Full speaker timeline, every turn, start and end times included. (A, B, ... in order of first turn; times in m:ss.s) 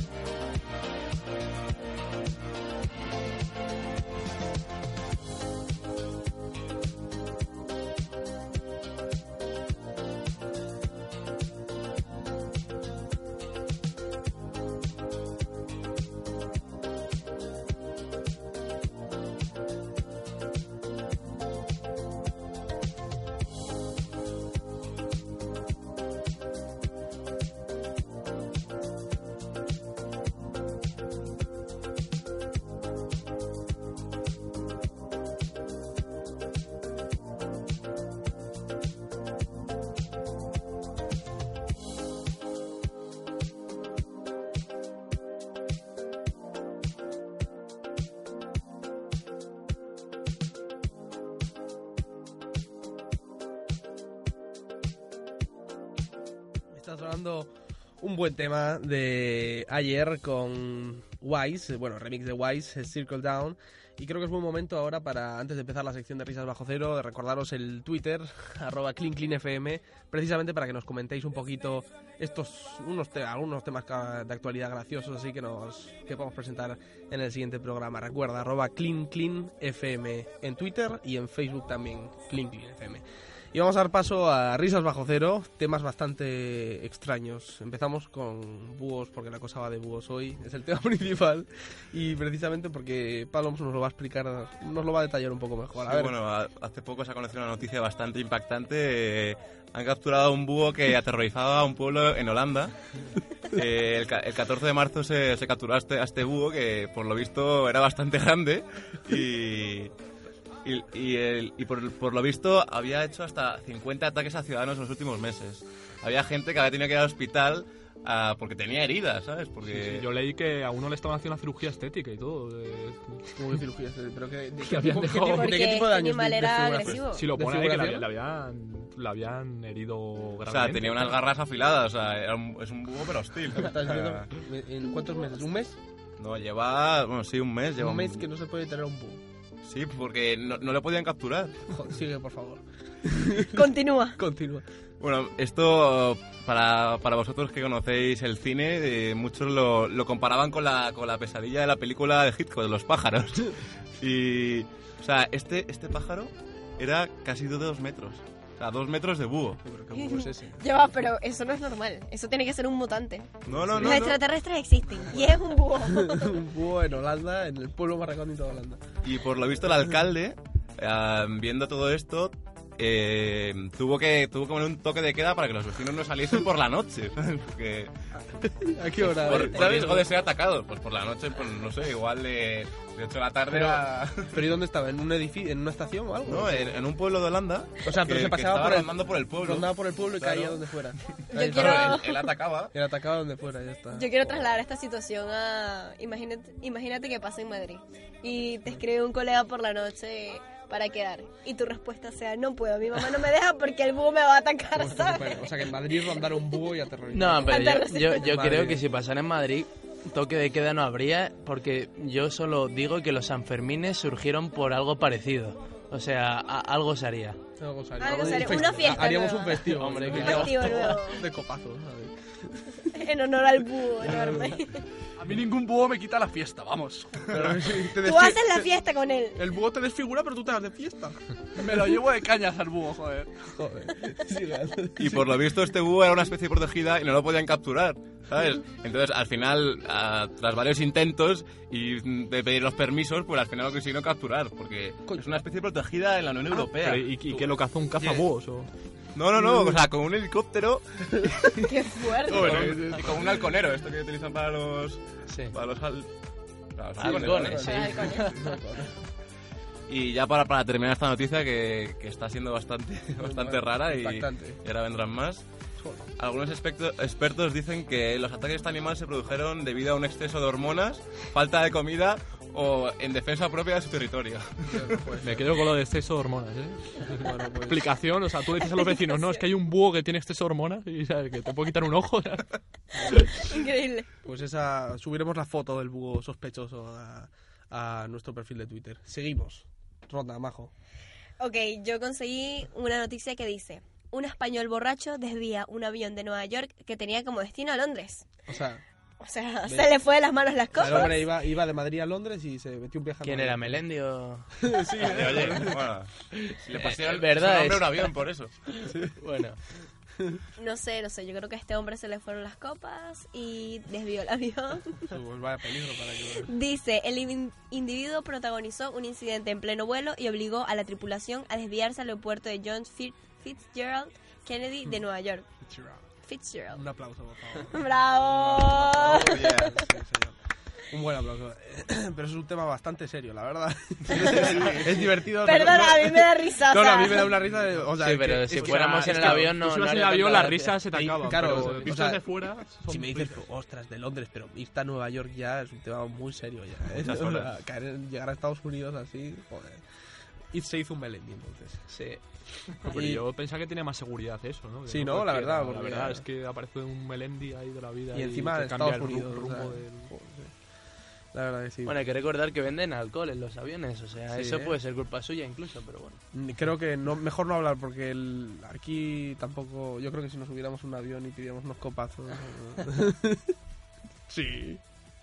0:56.7-1:36.2 A
1:35.8-1:42.7 B
1:43.5-1:49.9 B
1:50.6-2:00.0 B
1:59.7-2:03.3 C
2:03.3-2:08.1 A
2:04.6-2:05.8 C
2:05.2-2:07.2 D
2:07.1-2:11.2 C
2:10.5-2:14.3 B
2:13.5-2:15.8 A
2:16.2-2:18.2 B
2:17.8-2:19.2 A
2:19.6-2:21.6 B
2:21.7-2:24.6 A
2:23.5-2:24.2 D
2:25.0-2:39.6 B
2:39.6-2:40.6 A
2:39.9-2:46.4 D
2:43.4-2:44.2 A
2:43.4-2:44.2 B
2:45.1-2:48.8 A
2:49.0-2:57.9 B
2:58.3-3:00.1 A
2:59.0-3:04.4 B
3:03.5-3:06.8 A
3:06.2-3:10.6 B
3:07.8-3:12.0 A
3:11.3-3:12.7 B
3:11.3-3:12.3 D
3:12.7-3:14.4 A
3:13.9-3:26.2 D
3:24.7-3:28.8 A
3:27.1-3:37.4 E
3:27.5-3:28.3 D
3:37.6-3:42.9 A
3:38.0-3:41.2 D
3:39.7-3:40.9 E
3:42.9-3:44.8 D
3:44.0-3:44.6 A
3:45.2-3:47.8 F
3:47.3-3:48.7 A
3:48.0-3:49.4 D
3:49.3-3:51.4 A
3:51.6-3:53.6 F
3:53.6-3:55.4 A
3:55.0-4:07.5 B
4:05.1-4:05.4 A
4:06.7-4:08.7 C
4:09.1-4:11.5 B
4:09.4-4:09.7 A
4:11.3-4:11.6 A
4:11.6-4:12.8 D
4:12.2-4:13.2 A
4:12.3-4:16.1 B
4:15.3-4:15.5 E
4:16.8-4:18.2 B
4:17.0-4:18.1 E
4:17.0-4:18.9 A
4:17.6-4:18.4 D
4:19.9-4:25.4 B
4:23.2-4:24.6 A
4:26.2-4:34.9 B
4:34.7-4:35.4 A
4:35.2-4:42.5 C
4:37.1-4:37.9 A
4:38.9-4:39.4 D
4:43.3-4:44.1 D
4:44.2-4:50.7 A
4:51.4-4:58.3 D
4:58.5-4:58.8 A
4:59.2-5:01.3 D
4:59.6-4:59.9 A
5:00.7-5:03.8 A
5:03.2-5:04.6 E
5:04.6-5:05.8 A
5:05.0-5:08.6 B
5:05.2-5:05.7 F
5:06.5-5:08.2 E
5:09.2-5:09.6 E
5:10.6-5:15.1 D
5:15.1-5:16.5 A
5:16.4-5:25.4 D
5:25.6-5:26.0 A
5:26.2-5:26.8 D
5:26.7-5:30.4 A
5:27.7-5:29.8 D
5:29.2-5:29.8 B
5:30.9-5:39.5 A
5:34.1-5:35.7 B
5:35.4-5:37.4 D
5:38.0-5:40.8 E
5:38.5-5:43.4 C
5:40.9-5:49.9 A
5:41.4-5:42.7 F
5:47.0-5:47.5 B
5:50.4-5:52.0 A
5:51.9-5:52.2 E
5:52.8-6:00.1 C
5:52.9-5:53.2 A
5:54.8-5:56.2 A
5:58.1-6:00.6 A
6:01.3-6:02.0 A
6:01.8-6:06.2 E
6:04.3-6:04.8 A
6:06.3-6:13.6 A
6:14.3-6:14.8 A